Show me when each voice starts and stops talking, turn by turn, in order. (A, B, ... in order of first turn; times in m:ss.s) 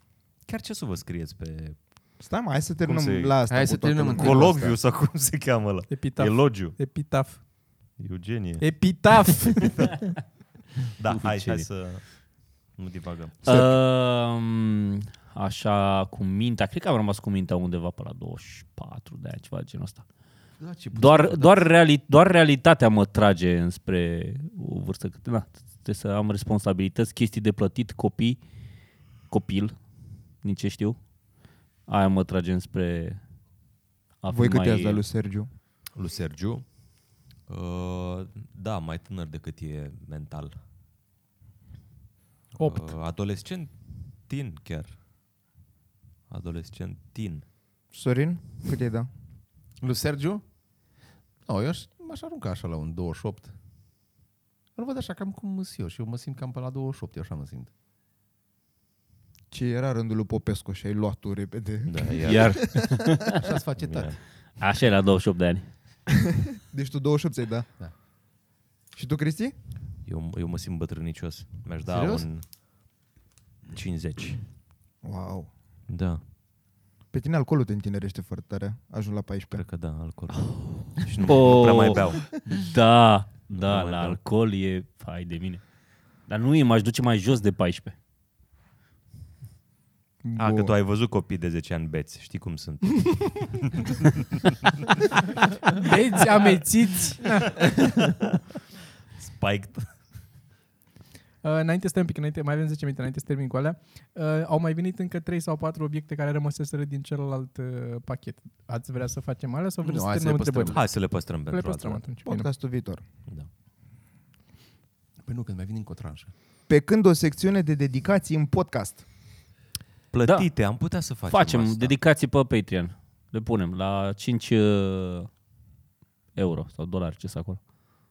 0:00.4-0:01.8 A
0:02.2-0:04.8 B
0:02.8-0:03.4 A
0:03.5-0:04.7 C
0:04.1-0:06.8 A
0:05.9-0:07.4 D
0:08.0-0:10.2 A
0:08.6-0:09.9 D
0:11.0-0:13.4 A
0:11.1-0:11.7 E
0:13.4-0:20.0 E
0:13.5-0:13.8 B
0:20.6-0:21.7 C
0:20.9-0:28.4 E
0:29.3-0:29.7 E
0:30.4-0:31.0 E
0:31.9-0:33.2 E
0:34.2-0:35.0 E
0:34.3-0:35.5 B
0:35.9-0:36.7 A
0:37.4-0:40.5 A
0:42.6-0:42.9 D
0:42.6-0:45.0 A
0:46.3-0:47.4 A
0:47.9-0:49.1 B
0:49.8-0:50.4 C
0:51.4-0:53.5 C
0:54.8-0:57.7 C
0:59.5-1:03.0 B
1:01.9-1:02.7 A
1:02.2-1:03.4 E
1:03.4-1:04.2 C
1:03.8-1:04.2 A
1:04.6-1:05.7 E
1:06.5-1:07.7 B
1:08.9-1:09.5 B
1:10.0-1:12.4 A
1:11.9-1:12.3 C
1:13.7-1:14.4 A
1:15.0-1:15.5 B
1:15.9-1:16.2 A
1:17.1-1:19.6 B
1:19.5-1:22.4 A
1:21.1-1:25.6 E
1:23.5-1:24.2 A
1:26.3-1:27.9 E
1:30.2-1:30.7 B
1:30.4-1:34.7 A
1:35.7-1:37.7 D
1:37.6-1:38.1 A
1:39.2-1:40.0 A
1:41.4-1:52.5 D
1:49.8-1:50.8 C
1:50.7-1:52.0 A
1:52.2-1:53.0 B
1:55.2-1:56.3 C
1:56.7-1:59.0 B
2:00.1-2:02.0 A
2:00.2-2:00.5 E
2:01.2-2:05.3 E
2:06.4-2:07.6 E